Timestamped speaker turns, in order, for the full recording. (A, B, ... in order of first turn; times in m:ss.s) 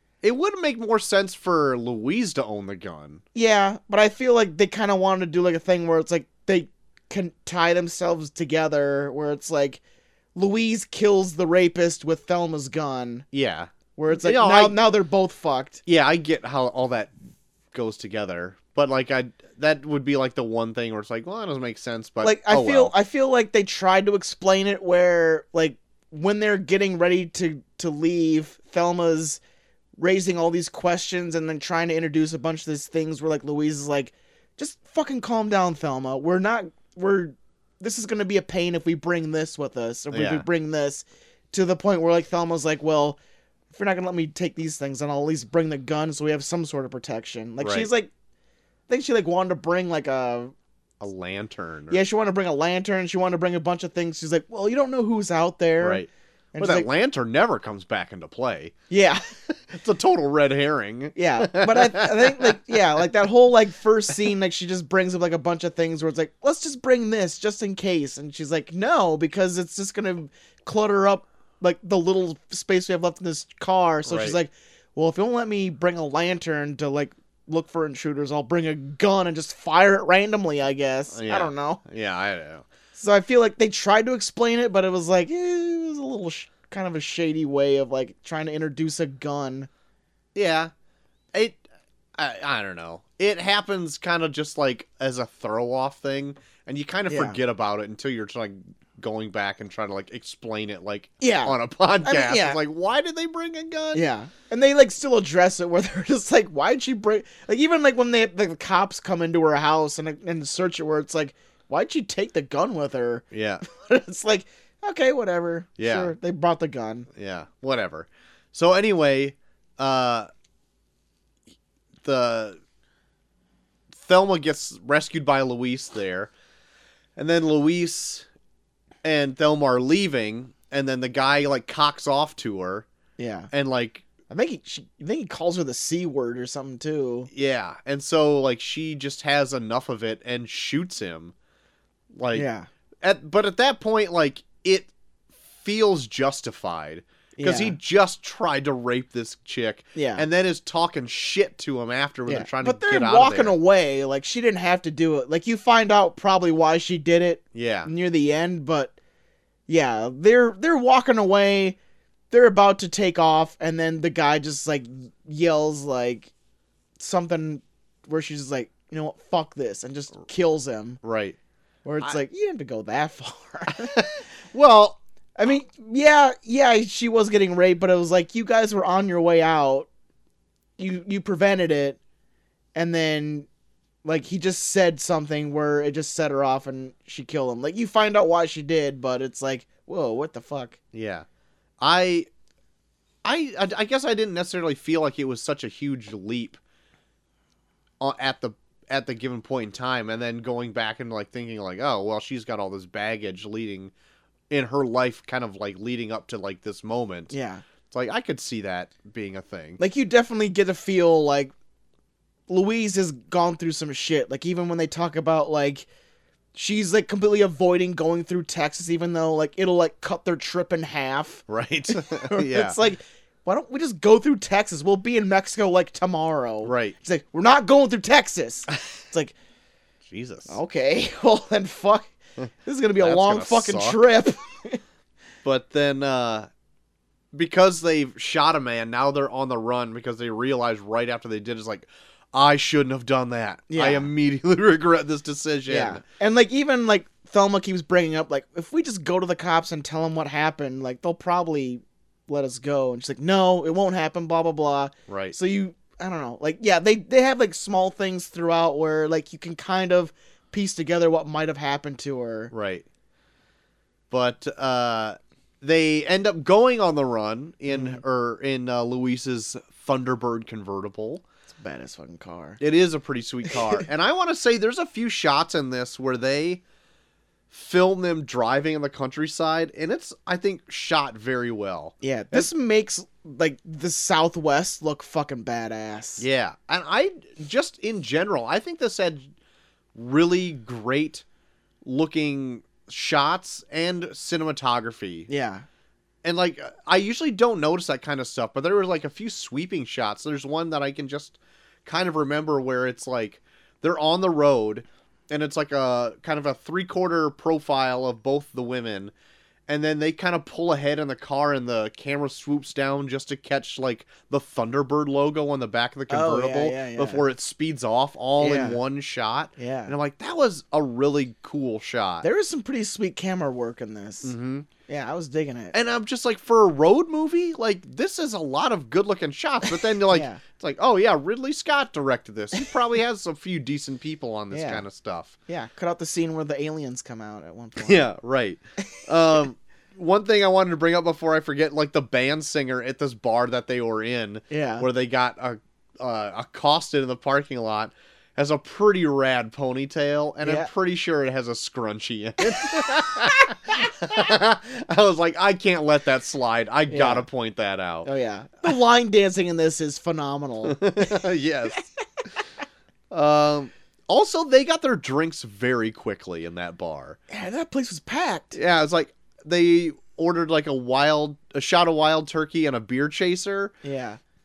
0:00.2-0:03.2 A
0:03.3-0:09.8 B
0:10.3-0:13.2 B
0:13.3-0:14.8 A
0:14.0-0:15.8 B
0:15.8-0:17.1 A
0:17.7-0:22.9 A
0:22.2-0:29.4 B
0:30.0-0:43.2 B
0:40.1-0:40.4 A
0:43.7-0:48.1 B
0:47.6-0:47.9 A
0:48.9-0:50.5 B
0:51.0-0:52.0 A
0:51.9-0:56.9 B
0:55.8-0:58.7 A
0:58.9-0:59.2 B
0:59.7-1:02.8 A
1:01.2-1:21.8 B
1:14.0-1:14.4 A
1:21.1-1:22.6 A
1:22.9-1:29.7 B
1:30.3-1:30.7 A
1:31.3-1:31.6 A
1:32.2-1:44.0 A
1:37.1-1:37.4 B
1:41.2-1:42.6 B
1:43.9-1:57.1 B
1:53.3-1:53.6 A
1:55.8-1:56.1 A
1:57.1-2:00.3 A
2:02.0-2:02.6 A
2:03.9-2:06.3 A
2:07.2-2:08.2 A
2:09.0-2:12.9 A
2:13.2-2:13.5 B
2:13.5-2:14.0 A
2:14.3-2:17.3 B
2:17.3-2:21.3 A
2:22.1-2:22.4 A
2:22.3-2:22.7 B
2:23.0-2:24.9 A
2:25.5-2:33.5 A
2:27.4-2:27.8 B
2:29.9-2:30.2 B
2:32.2-2:38.9 B
2:37.5-2:37.9 A
2:39.7-2:41.8 B
2:42.3-2:46.3 B
2:47.0-2:51.0 B
2:51.0-2:51.4 A
2:51.8-2:54.1 B
2:53.8-2:55.0 A
2:55.4-2:59.9 B
3:00.8-3:02.0 B
3:02.7-3:03.5 B
3:04.0-3:10.8 B
3:10.9-3:11.2 A
3:11.8-3:12.3 A
3:13.2-3:16.6 A
3:18.0-3:23.9 A
3:24.5-3:27.3 A
3:27.3-3:27.6 B
3:27.9-3:29.8 A
3:29.8-3:31.5 B
3:32.5-3:35.8 B
3:36.5-3:49.3 B
3:41.5-3:42.8 A
3:46.6-3:47.0 A
3:50.1-3:50.6 A
3:50.5-3:52.1 B
3:52.4-3:54.1 A
3:52.6-3:54.8 B
3:55.4-3:56.5 A
3:57.3-4:06.0 A
4:03.7-4:04.1 B
4:05.7-4:22.5 B
4:15.1-4:15.3 A
4:22.5-4:22.8 A
4:24.1-4:31.2 A
4:27.7-4:28.0 B
4:31.5-4:32.6 B
4:32.6-4:36.6 A
4:33.5-4:33.8 B
4:37.5-4:42.5 A
4:42.0-4:46.2 B
4:46.2-4:49.3 A
4:49.9-4:51.2 A
4:51.8-4:55.3 A
4:55.3-4:55.6 B
4:56.2-5:09.1 A
5:09.7-5:22.2 A
5:16.1-5:17.2 B
5:18.4-5:18.8 B
5:19.6-5:19.9 B
5:22.2-5:24.3 B
5:24.2-5:24.7 A
5:24.9-5:25.7 B
5:25.7-5:35.3 A
5:29.8-5:30.4 B
5:34.5-5:34.8 B
5:35.5-5:38.0 B
5:37.8-5:58.1 A
5:44.5-5:44.8 B
5:50.4-5:50.7 B
5:56.9-5:57.3 B
5:58.0-6:01.3 B
6:00.7-6:01.8 A
6:03.1-6:07.2 A
6:07.3-6:08.6 B
6:08.5-6:13.7 A
6:13.8-6:14.2 B